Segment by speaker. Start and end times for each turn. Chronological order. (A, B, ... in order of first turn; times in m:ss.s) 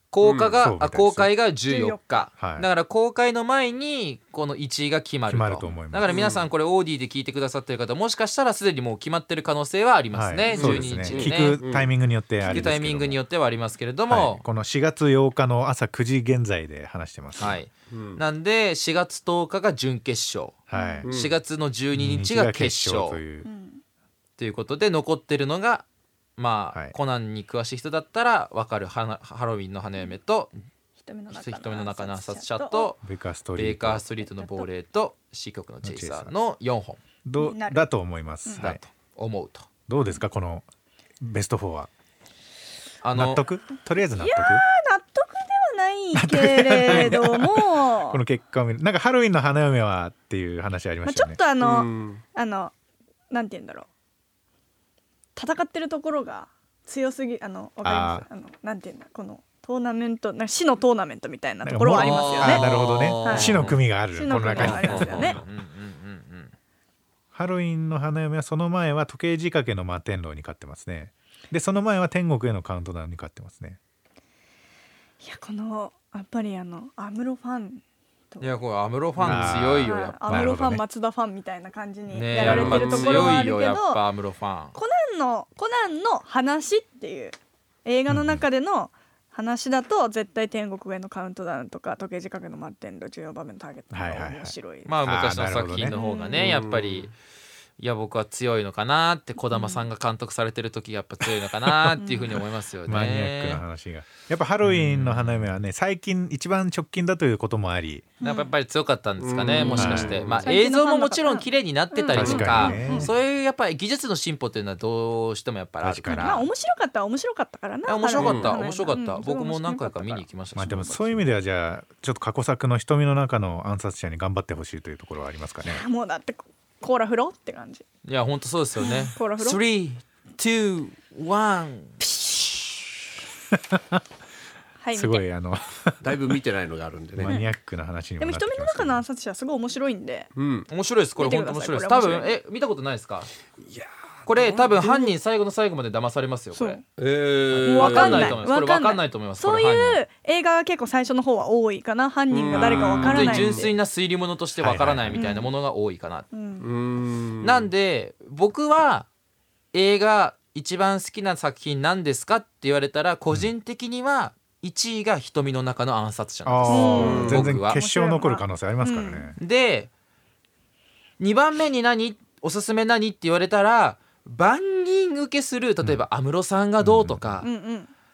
0:00.1-0:11.6 A
0:00.2-0:00.5 B
0:00.6-0:01.3 C
0:01.7-0:02.3 D
0:02.4-0:02.7 C
0:05.3-0:06.2 C
0:06.1-0:06.4 B
0:10.1-0:13.2 C
0:10.5-0:11.9 B
0:12.5-0:14.4 A
0:14.1-0:17.6 C
0:17.4-0:23.2 A
0:17.9-0:18.2 B
0:20.7-0:21.1 C
0:20.7-0:21.1 D
0:21.0-0:21.3 B
0:21.9-0:23.5 C
0:23.4-0:23.8 D
0:24.4-0:25.9 A
0:26.4-0:30.5 A
0:31.0-0:32.9 D
0:31.3-0:33.0 A
0:33.0-0:34.0 C
0:33.6-0:37.0 A
0:34.2-0:34.7 D
0:35.8-0:36.3 C
0:37.2-0:38.8 C
0:37.4-0:37.8 D
0:38.6-0:39.7 A
0:39.9-0:40.6 C
0:41.2-0:41.9 C
0:43.0-0:43.4 A
0:43.1-0:44.6 C
0:44.2-0:48.2 D
0:46.2-0:51.4 C
0:51.0-0:52.7 D
0:51.6-0:52.2 B
0:53.3-0:53.9 D
0:55.4-1:02.7 D
0:57.8-0:58.2 C
1:01.6-1:05.4 C
1:01.9-1:03.8 B
1:03.2-1:03.6 D
1:03.4-1:03.8 A
1:04.1-1:05.4 D
1:04.6-1:05.5 B
1:04.6-1:06.5 A
1:07.3-1:13.8 C
1:15.2-1:18.5 D
1:18.4-1:20.6 A
1:19.2-1:19.5 B
1:19.2-1:20.8 C
1:19.8-1:24.0 D
1:22.1-1:24.8 A
1:22.4-1:23.4 B
1:24.7-1:34.9 D
1:28.1-1:28.4 C
1:33.9-1:35.9 C
1:34.9-1:37.1 A
1:35.9-1:36.5 D
1:36.3-1:37.1 B
1:37.8-1:43.6 A
1:39.5-1:39.8 D
1:42.0-1:42.3 D
1:42.9-1:48.1 C
1:44.6-1:45.5 A
1:48.2-1:48.5 D
1:48.2-1:56.5 A
1:49.2-1:50.5 B
1:49.7-1:50.3 C
1:50.4-1:53.1 D
1:52.1-1:53.1 C
1:52.2-1:52.7 B
1:55.8-1:56.5 C
1:56.1-2:00.2 D
1:57.9-2:01.2 A
1:58.2-1:58.6 B
2:00.6-2:05.8 C
2:05.6-2:07.8 D
2:08.0-2:12.0 A
2:08.8-2:09.6 D
2:12.0-2:12.6 D
2:13.7-2:14.0 C
2:14.8-2:15.2 D
2:14.9-2:16.3 C
2:16.0-2:17.3 B
2:17.2-2:19.0 C
2:17.2-2:17.5 D
2:18.2-2:20.3 D
2:20.4-2:20.7 B
2:20.7-2:23.3 A
2:21.2-2:22.4 D
2:23.6-2:24.7 B
2:24.2-2:26.8 A
2:24.7-2:25.1 D
2:26.6-2:26.8 D
2:27.0-2:28.4 B
2:27.6-2:30.0 A
2:27.6-2:33.7 D
2:32.3-2:33.7 B
2:32.5-2:36.3 A
2:34.6-2:35.3 C
2:35.1-2:35.5 D
2:36.3-2:36.7 D
2:36.6-2:37.7 B
2:37.4-2:39.1 A
2:39.7-2:47.8 A
2:46.5-2:49.4 C
2:46.7-2:49.3 D
2:47.0-2:47.5 B
2:49.4-2:49.9 A
2:51.2-2:57.5 A
2:56.8-2:57.2 C
2:57.4-2:57.9 D